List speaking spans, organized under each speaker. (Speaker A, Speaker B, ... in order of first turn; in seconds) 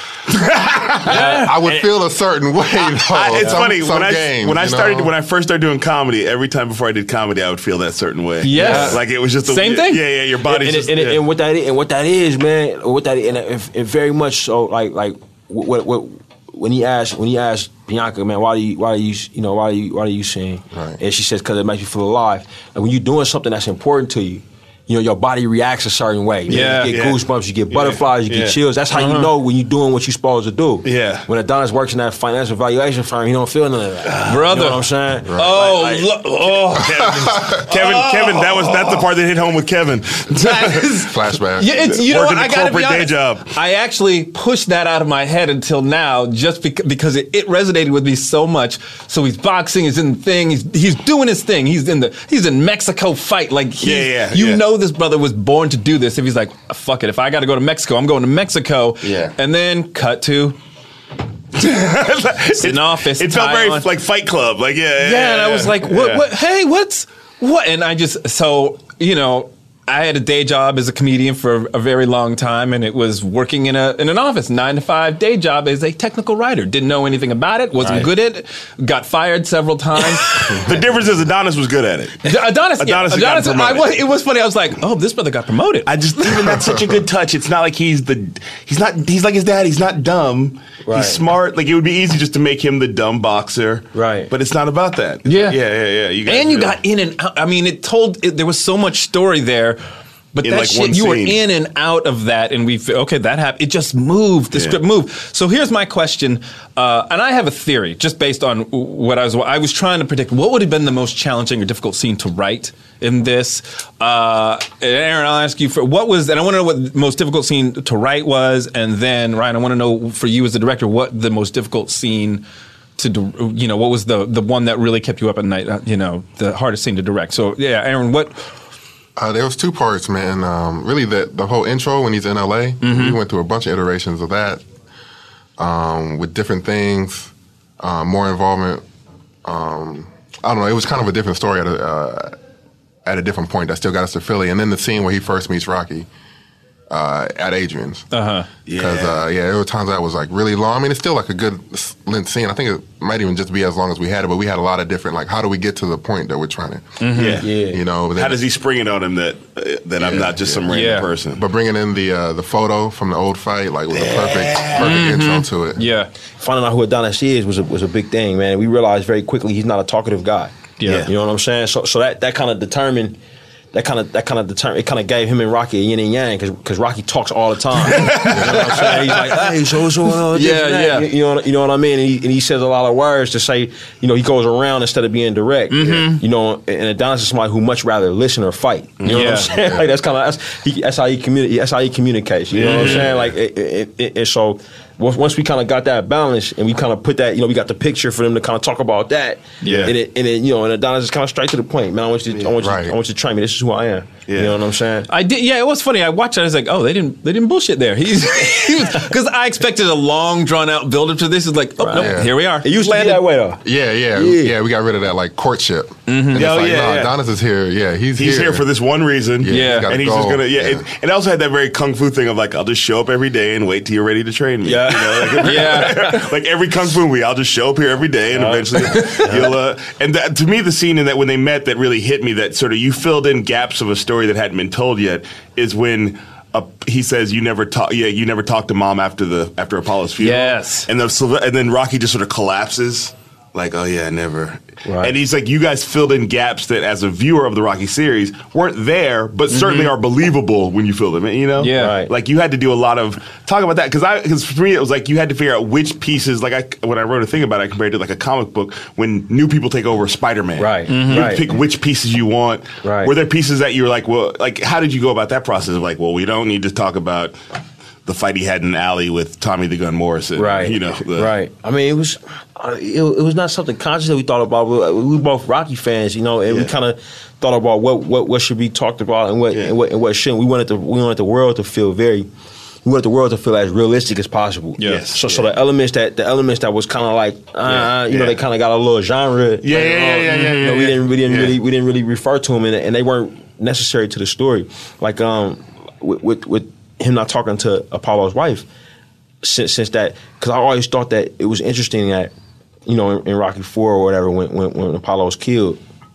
Speaker A: 0.3-1.0, 3.0-11.2, 26.5-28.6, 30.8-31.3, 34.1-34.4, 36.8-40.9, 41.9-43.5, 53.8-54.6, 59.0-59.3, 61.5-66.2, 80.3-84.0, 85.9-96.8, 100.4-101.4, 104.5-104.8, 148.7-149.2, 157.1-157.5, 158.2-161.4, 163.9-165.0, 170.8-171.1, 177.9-179.2, 189.0-189.3, 192.5-193.3, 199.7-199.9, 204.3-204.6, 216.3-217.1, 218.2-267.4, 268.1-271.3, 284.8-285.5, 287.6-288.4, 289.6-291.6
Speaker B: 1.0-5.1, 20.7-21.0, 36.9-37.6, 40.9-41.8, 129.2-134.6, 135.6-138.8, 139.4-142.3, 143.1-146.1, 146.9-148.1, 148.7-157.0, 157.7-158.4, 160.0-160.7, 161.3-165.8, 202.6-203.0, 211.9-212.3, 213.6-218.7, 219.4-220.8
Speaker C: 1.1-1.6, 8.4-10.0, 26.5-26.9, 28.9-29.3, 34.3-39.0, 40.3-60.6, 62.6-63.9, 65.0-80.6, 82.2-85.9, 95.2-95.6, 96.2-99.8, 100.3-122.4, 123.0-128.4, 132.8-133.2, 148.1-148.5, 157.0-157.4, 160.7-161.1, 164.8-166.1, 170.8-171.1, 178.7-179.2, 180.3-181.1, 185.7-186.2, 189.1-189.5, 192.6-193.1, 199.6-199.9, 205.1-213.3, 216.1-216.4, 219.5-219.9, 225.4-226.2, 240.2-240.9, 249.5-249.9, 251.6-252.0, 260.9-261.3, 284.8-285.1
Speaker D: 1.1-1.9, 8.5-9.0, 10.4-36.1, 90.9-91.2, 93.9-94.3, 157.4-157.8, 166.4-170.5, 171.1-173.2, 173.7-205.1, 211.8-213.6, 214.2-214.6, 224.6-226.2, 228.3-229.5, 244.9-245.1, 251.7-252.1, 260.6-261.6, 262.8-263.1, 270.4-282.3, 282.9-298.7, 299.4-302.3, 302.9-305.8